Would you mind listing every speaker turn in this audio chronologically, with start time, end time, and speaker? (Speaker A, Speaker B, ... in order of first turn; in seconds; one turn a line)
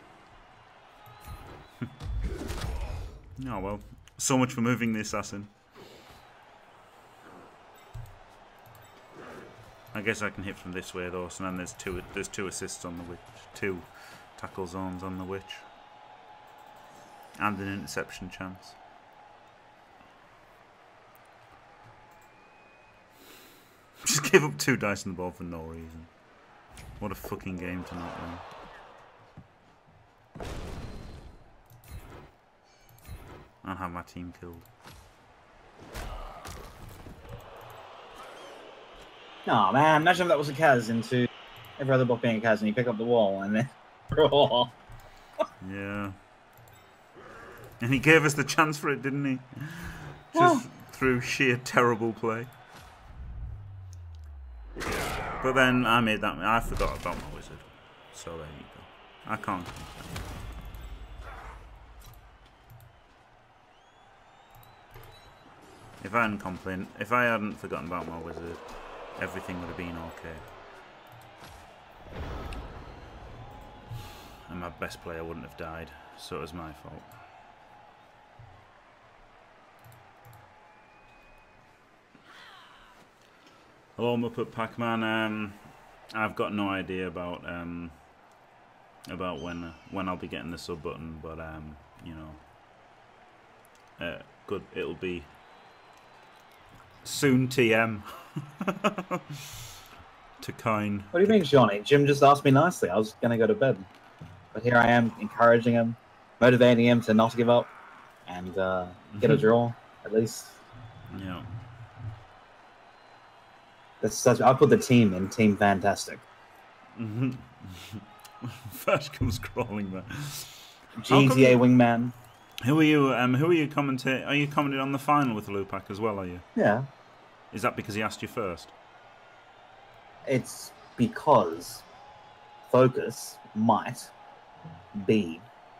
Speaker A: 3.4-5.5
Speaker A: 9.9-15.7
Speaker A: 17.4-18.8
Speaker A: 24.0-26.1
Speaker A: 27.0-28.4
Speaker A: 33.6-34.7
Speaker B: 39.5-44.7
Speaker A: 45.6-46.2
Speaker A: 47.8-52.5
Speaker B: 50.3-50.6
Speaker A: 55.4-60.2
Speaker A: 66.0-70.4
Speaker A: 74.5-77.1
Speaker A: 84.0-88.0
Speaker A: 89.1-92.4
Speaker A: 94.0-95.3
Speaker A: 97.0-99.6
Speaker A: 100.4-101.4
Speaker B: 101.1-103.9
Speaker B: 104.5-107.7
Speaker B: 108.2-110.6
Speaker A: 109.1-109.4
Speaker A: 111.1-111.5
Speaker B: 114.0-116.2
Speaker A: 116.9-121.6
Speaker B: 121.0-122.1
Speaker A: 122.6-126.4
Speaker B: 126.5-126.8
Speaker A: 127.5-128.7
Speaker B: 130.2-131.8
Speaker B: 132.7-134.1
Speaker B: 134.9-135.4